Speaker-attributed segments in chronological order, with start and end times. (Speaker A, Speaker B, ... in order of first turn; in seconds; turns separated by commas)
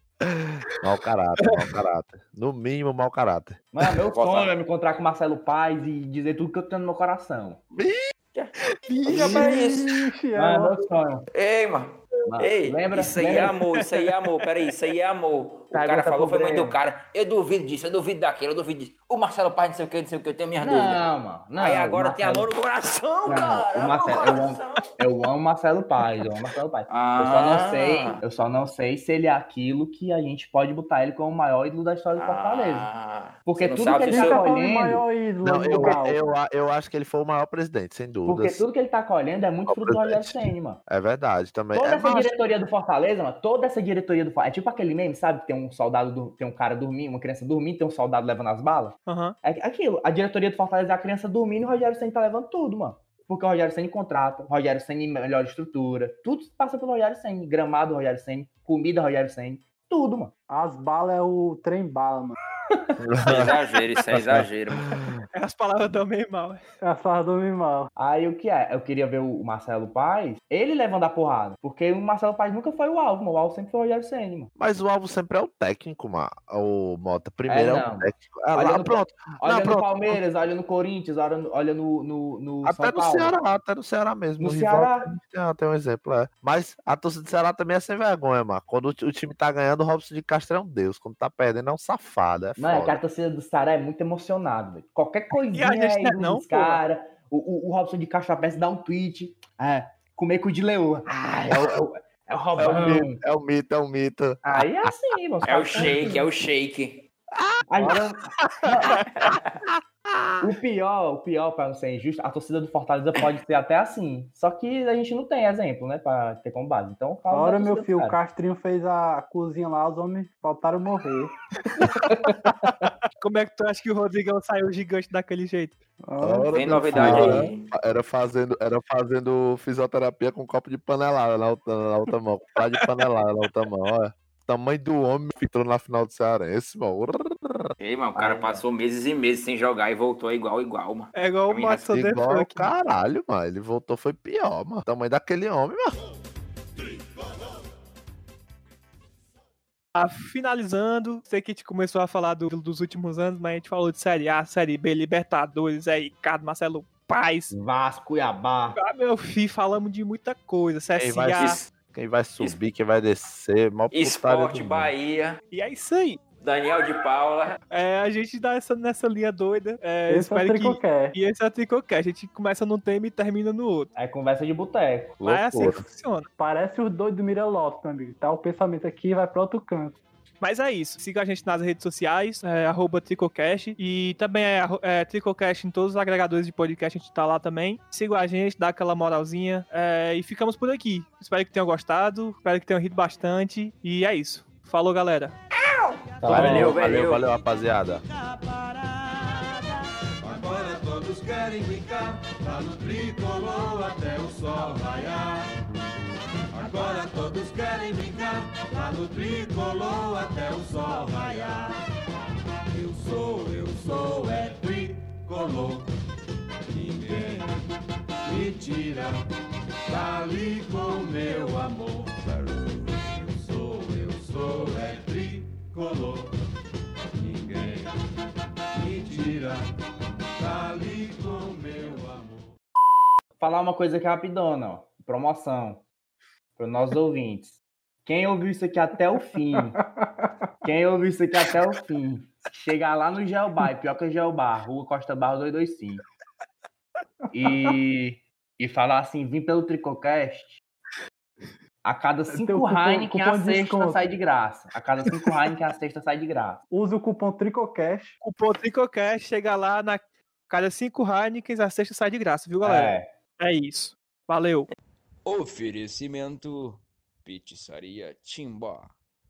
Speaker A: 0.8-3.7, Speaker B: 3.7-7.6, Speaker C: 4.1-4.6, Speaker A: 7.7-8.1, Speaker C: 8.3-10.1, Speaker D: 9.0-10.8, Speaker B: 9.1-9.4, Speaker B: 10.3-11.3, Speaker C: 11.3-21.0, Speaker B: 12.3-13.6, Speaker E: 13.8-14.5, Speaker B: 15.7-16.8, Speaker B: 20.6-22.5, Speaker C: 21.6-24.9, Speaker B: 23.3-32.9, Speaker C: 26.9-28.2, Speaker C: 32.2-34.4, Speaker B: 33.5-35.0, Speaker D: 34.1-36.2, Speaker A: 35.4-38.6, Speaker B: 35.7-36.0, Speaker B: 38.2-40.8, Speaker A: 39.7-42.3, Speaker B: 41.7-60.3, Speaker E: 49.1-49.4, Speaker D: 60.5-62.4, Speaker A: 63.0-63.5, Speaker C: 63.3-64.9, Speaker A: 64.1-65.2, Speaker E: 65.3-66.6, Speaker D: 66.8-67.9, Speaker B: 68.0-74.5, Speaker A: 74.6-80.2, Speaker B: 77.5-83.4, Speaker A: 82.6-93.0, Speaker B: 84.4-85.1, Speaker B: 92.6-103.2, Speaker E: 95.5-96.8, Speaker A: 101.4-101.8, Speaker A: 102.6-104.9, Speaker B: 104.4-106.3, Speaker C: 105.5-107.0, Speaker B: 107.7-109.3, Speaker B: 110.4-118.2, Speaker D: 117.3-121.3, Speaker B: 121.8-122.4, Speaker E: 123.2-125.8, Speaker D: 126.0-127.4, Speaker A: 126.2-137.7, Speaker C: 126.5-127.7, Speaker B: 127.0-127.4, Speaker C: 137.8-141.9, Speaker B: 138.2-138.7, Speaker E: 141.1-142.7, Speaker A: 141.9-146.0, Speaker E: 149.9-157.5, Speaker B: 157.5-158.8, Speaker E: 158.7-161.6, Speaker A: 160.9-164.9, Speaker C: 161.4-161.7, Speaker C: 163.9-165.4, Speaker E: 165.5-166.2, Speaker C: 166.4-167.6, Speaker E: 167.7-173.9, Speaker D: 170.1-171.2, Speaker B: 173.9-175.2, Speaker A: 175.2-175.8, Speaker E: 175.2-176.3, Speaker D: 176.4-180.0, Speaker E: 180.4-195.4, Speaker C: 195.7-197.3, Speaker B: 196.2-197.0, Speaker A: 196.2-198.1, Speaker F: 200.2-205.4, Speaker F: 206.5-211.7, Speaker F: 212.7-215.9, Speaker F: 216.7-217.5, Speaker F: 218.3-219.2, Speaker F: 219.9-226.3, Speaker F: 227.1-227.9, Speaker F: 228.8-229.7, Speaker F: 230.4-232.6, Speaker B: 233.4-235.8, Speaker B: 236.6-239.8, Speaker D: 239.6-240.3, Speaker B: 240.6-246.0, Speaker B: 247.3-250.6, Speaker D: 247.4-247.7, Speaker B: 251.8-256.6, Speaker D: 252.3-254.0, Speaker D: 256.7-258.1, Speaker E: 258.2-264.7, Speaker B: 262.6-263.1, Speaker F: 265.3-268.9